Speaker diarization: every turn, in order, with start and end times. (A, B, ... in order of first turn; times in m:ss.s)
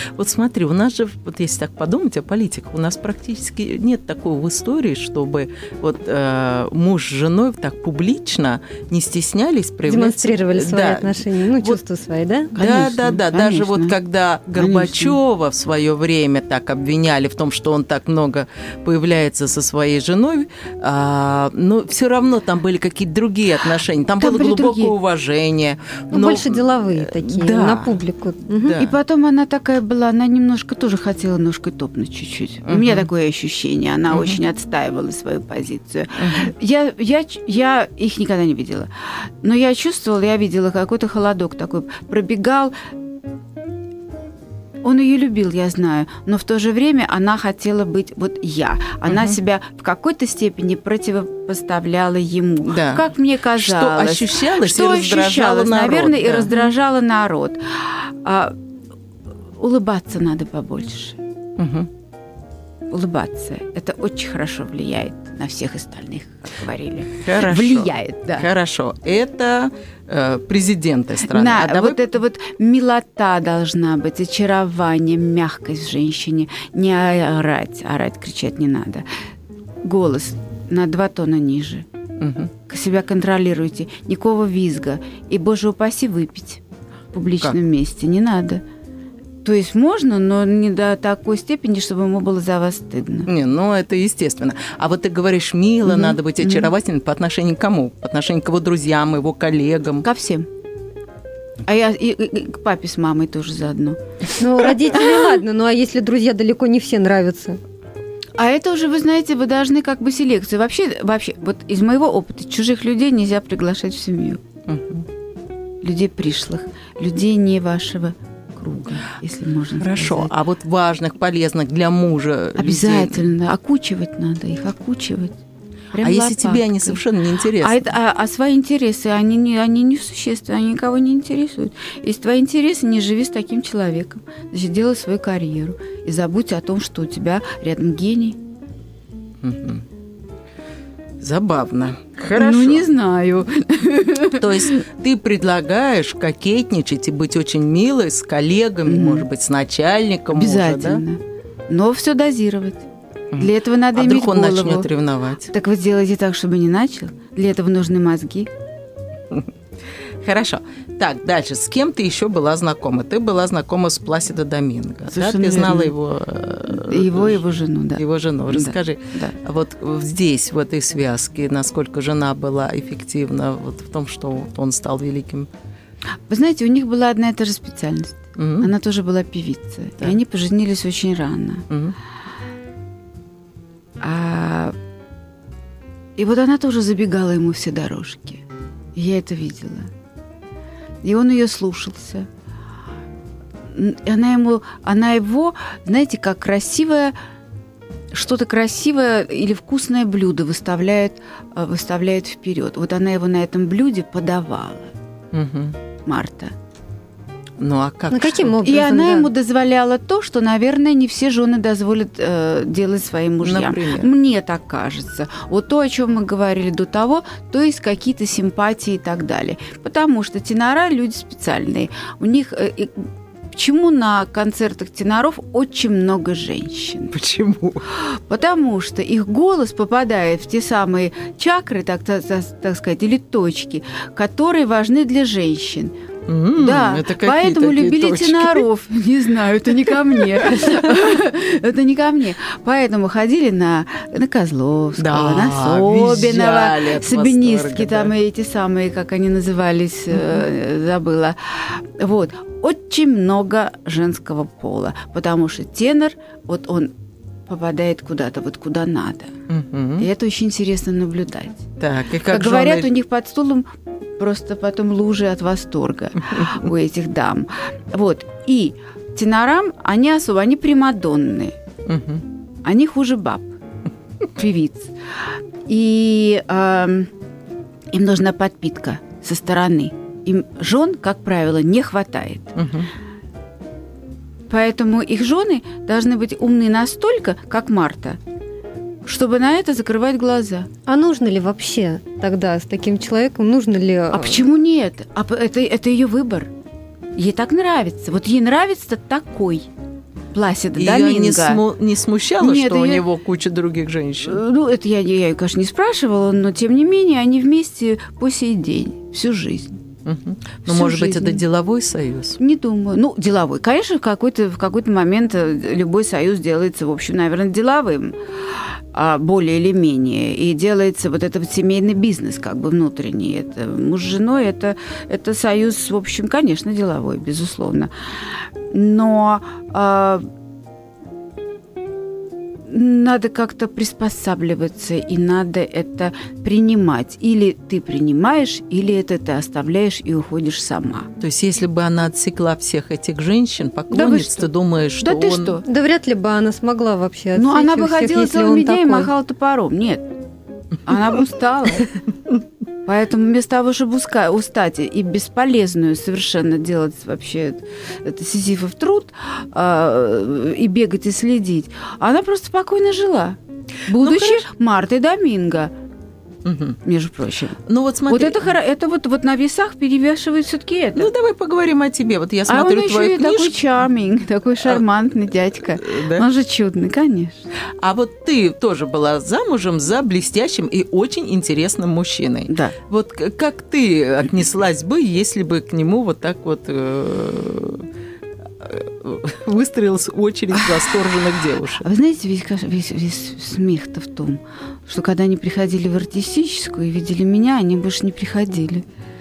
0:00.2-0:11.8 A
0:09.9-0:12.5 B
0:12.5-0:14.0 C
0:12.5-0:28.0 A
0:14.5-0:15.2 C
0:24.2-0:24.9 C
0:26.1-0:28.8 B
0:28.5-0:29.0 A
0:28.8-0:38.9 C
0:32.7-0:33.1 A
0:34.1-0:34.4 A
0:36.2-0:36.5 A
0:39.4-0:42.7 C
0:44.8-0:58.5 C
0:49.1-0:49.4 A
0:52.6-0:56.5 A
0:59.6-1:01.2 C
1:01.6-1:01.9 A
1:02.9-1:08.5 C
1:07.2-1:12.0 A
1:11.3-1:19.0 C
1:19.8-1:21.8 C
1:22.2-1:22.5 A
1:22.7-1:26.6 C
1:27.1-1:28.6 C
1:29.4-1:33.3 C
1:33.2-1:40.1 A
1:35.8-1:36.7 C
1:40.0-1:40.5 C
1:41.6-1:44.0 C
1:44.4-1:47.6 B
1:48.4-1:54.4 C
1:54.6-1:55.0 A
1:55.8-2:00.3 C
1:59.8-2:03.3 A
2:02.6-2:05.4 C
2:05.9-2:07.0 C
2:06.0-2:07.9 A
2:07.6-2:18.4 C
2:19.4-2:19.8 A
2:21.2-2:22.9 A
2:22.3-2:24.7 C
2:24.3-2:31.0 A
2:28.8-2:29.2 C
2:30.3-2:34.9 C
2:33.3-2:35.5 A
2:35.5-2:38.5 C
2:40.2-2:47.4 A
2:45.1-2:45.9 C
2:46.7-2:49.3 C
2:48.0-2:55.5 A
2:56.3-3:01.6 C
2:58.4-2:58.7 A
3:01.7-3:02.0 A
3:04.0-3:04.7 C
3:06.2-3:08.4 C
3:09.0-3:09.9 C
3:11.0-3:12.3 C
3:13.7-3:17.1 C
3:18.1-3:24.9 C
3:25.3-3:25.8 A
3:26.0-3:26.5 C
3:27.6-3:28.6 A
3:28.1-3:29.3 B
3:28.6-3:47.1 C
3:33.4-3:34.1 A
3:47.1-3:47.8 A
3:47.9-3:55.9 C
3:56.3-3:58.6 A
3:56.6-4:16.9 C
4:00.2-4:01.1 A
4:05.0-4:08.1 A
4:10.1-4:10.4 A
4:17.5-4:19.3 C
4:19.5-4:20.1 A
4:20.0-4:21.7 C
4:21.8-4:22.9 A
4:22.3-4:31.5 C
4:26.3-4:26.7 A
4:31.8-4:32.2 A
4:32.6-4:33.5 C
4:34.3-4:37.1 C
4:37.9-4:42.6 C
4:42.6-4:42.9 A
4:44.5-4:48.2 C
4:49.0-4:50.7 C
4:50.9-4:54.4 B
4:54.1-4:56.5 C
4:57.2-4:59.7 C
5:00.3-5:01.6 C
5:00.8-5:04.4 A
5:02.4-5:03.0 C
5:04.2-5:09.8 C
5:10.0-5:12.4 A
5:10.6-5:11.4 C
5:12.4-5:27.9 C
5:28.7-5:30.2 C
5:32.7-5:41.1 C
5:41.2-5:45.6 A
5:43.9-5:45.6 C
5:45.6-5:49.1 B
5:47.4-5:50.0 C
5:50.8-5:51.9 C
5:52.8-6:05.7 C
6:03.9-6:04.4 A
6:06.4-6:06.8 A
6:06.8-6:11.1 C
6:07.7-6:08.4 A
6:11.0-6:13.6 A
6:12.5-6:17.4 C
6:15.7-6:16.2 A
6:17.8-6:27.9 A
6:22.5-6:22.7 C
6:28.6-6:31.8 A
6:31.8-6:38.8 C